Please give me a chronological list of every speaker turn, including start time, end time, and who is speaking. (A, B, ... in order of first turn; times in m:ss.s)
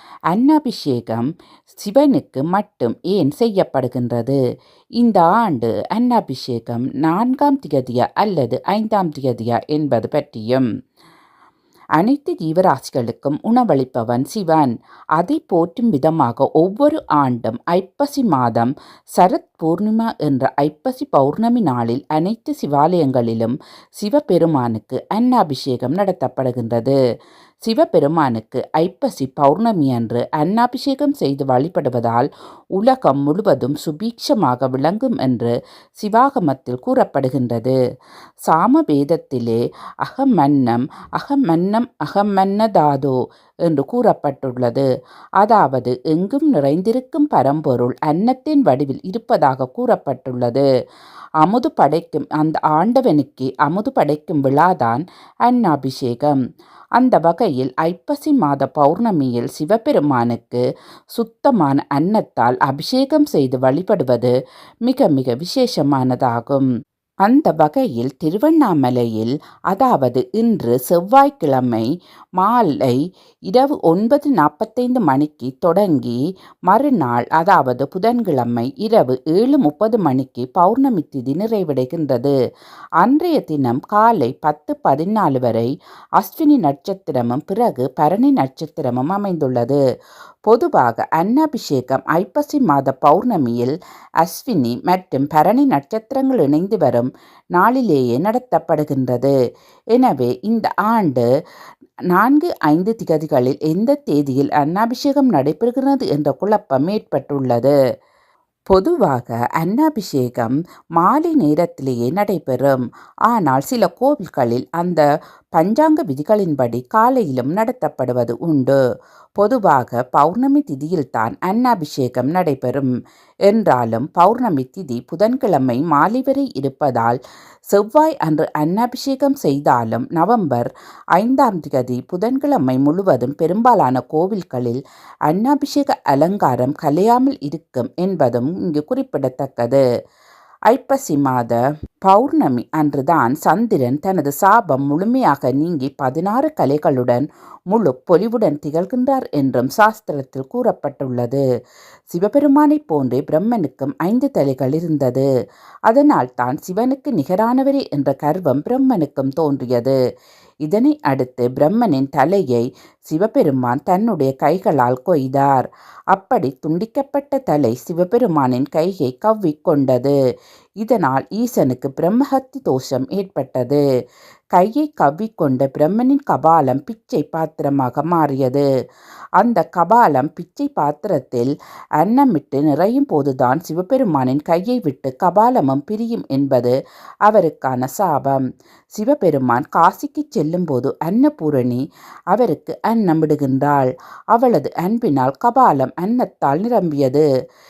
0:00.3-0:04.4 A
0:05.0-0:10.7 A
0:12.0-0:27.0 A
0:27.6-0:32.3 A
0:32.8-0:37.8 A
0:38.5-0:44.9 A
0:45.4-0:50.6 A
0:51.4-0:56.4 A
0:57.0-1:00.6 A
1:01.2-1:04.3 A
1:04.9-1:06.7 A
1:07.3-1:11.9 A
1:12.4-1:13.0 A
1:13.5-1:16.2 A
1:16.7-1:22.3 A
1:23.0-1:25.7 A
1:26.2-1:29.8 A
1:30.5-1:39.3 A
1:40.0-1:41.2 A
1:42.1-1:47.7 A
1:48.7-1:55.0 A
1:55.6-1:58.8 A
1:59.4-2:02.9 A
2:03.5-2:07.2 A
2:07.7-2:19.8 A
2:20.7-2:31.4 A
2:32.1-2:35.3 A
2:35.9-2:40.0 A
2:40.7-2:50.2 A
2:50.8-2:53.8 A
2:54.6-2:58.6 A
2:59.4-3:06.8 A
3:07.3-3:08.4 A
3:08.9-3:17.2 A